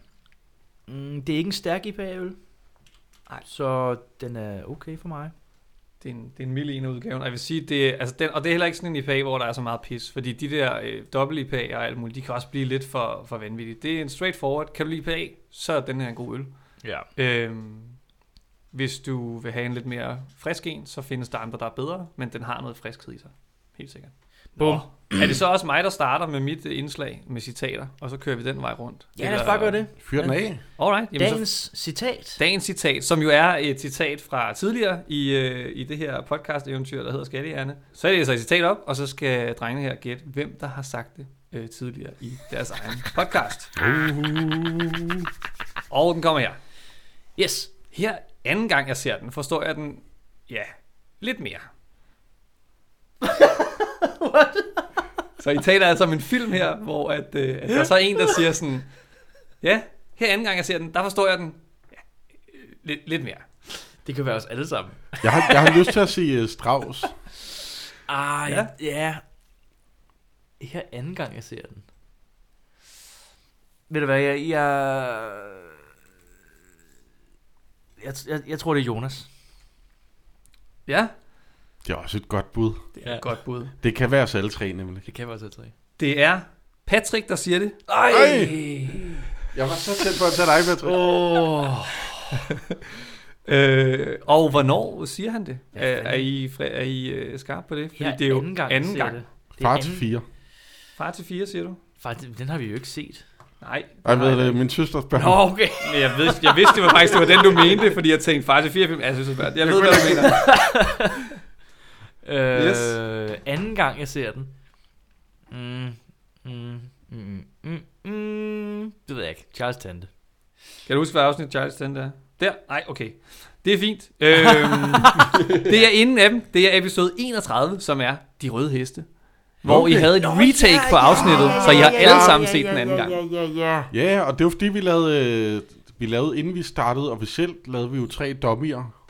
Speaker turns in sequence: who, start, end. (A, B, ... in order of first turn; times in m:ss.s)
0:00.9-0:02.4 A
0:03.4-0:05.3 A
0:06.0-0:16.5 B
0:16.8-0:17.1 A
0:17.2-0:18.0 B
0:18.7-0:29.8 B
0:24.6-0:25.4 A
0:29.2-0:30.4 A
0:30.0-0:30.6 C
0:30.8-0:31.5 B
0:31.1-0:32.4 A
0:32.4-0:43.7 B
0:43.8-0:45.2 C
0:45.9-0:46.6 B
0:47.4-0:47.7 A
0:47.9-0:51.7 B
0:53.2-0:54.8 A
0:55.4-0:58.9 B
0:59.6-1:01.6 B
1:02.5-1:03.4 B
1:04.0-1:06.0 A
1:05.2-1:07.2 C
1:08.1-1:09.2 A
1:08.4-1:08.7 B
1:10.6-1:11.8 A
1:13.9-1:15.8 A
1:18.0-1:19.3 A
1:20.9-1:21.1 B
1:21.8-1:22.9 C
1:23.0-1:23.7 B
1:23.0-1:23.3 A
1:23.8-1:25.0 C
1:25.0-1:25.7 A
1:26.0-1:27.8 B
1:27.9-1:29.3 A
1:28.1-1:28.5 C
1:29.5-1:31.0 C
1:30.8-1:32.4 A
1:33.4-1:39.2 B
1:35.7-1:36.3 A
1:37.9-1:40.1 A
1:39.6-1:40.2 C
1:41.0-1:41.8 B
1:42.0-1:43.2 A
1:43.6-1:44.6 B
1:44.0-1:45.4 C
1:45.1-1:47.9 A
1:45.8-1:50.6 B
1:49.6-1:50.4 C
1:50.2-1:51.3 A
1:52.2-1:54.5 A
1:52.5-1:53.0 B
1:55.5-2:00.1 A
2:00.8-2:09.1 B
2:09.6-2:13.2 B
2:09.6-2:10.2 C
2:10.1-2:13.9 A
2:11.8-2:12.3 C
2:13.9-2:18.9 C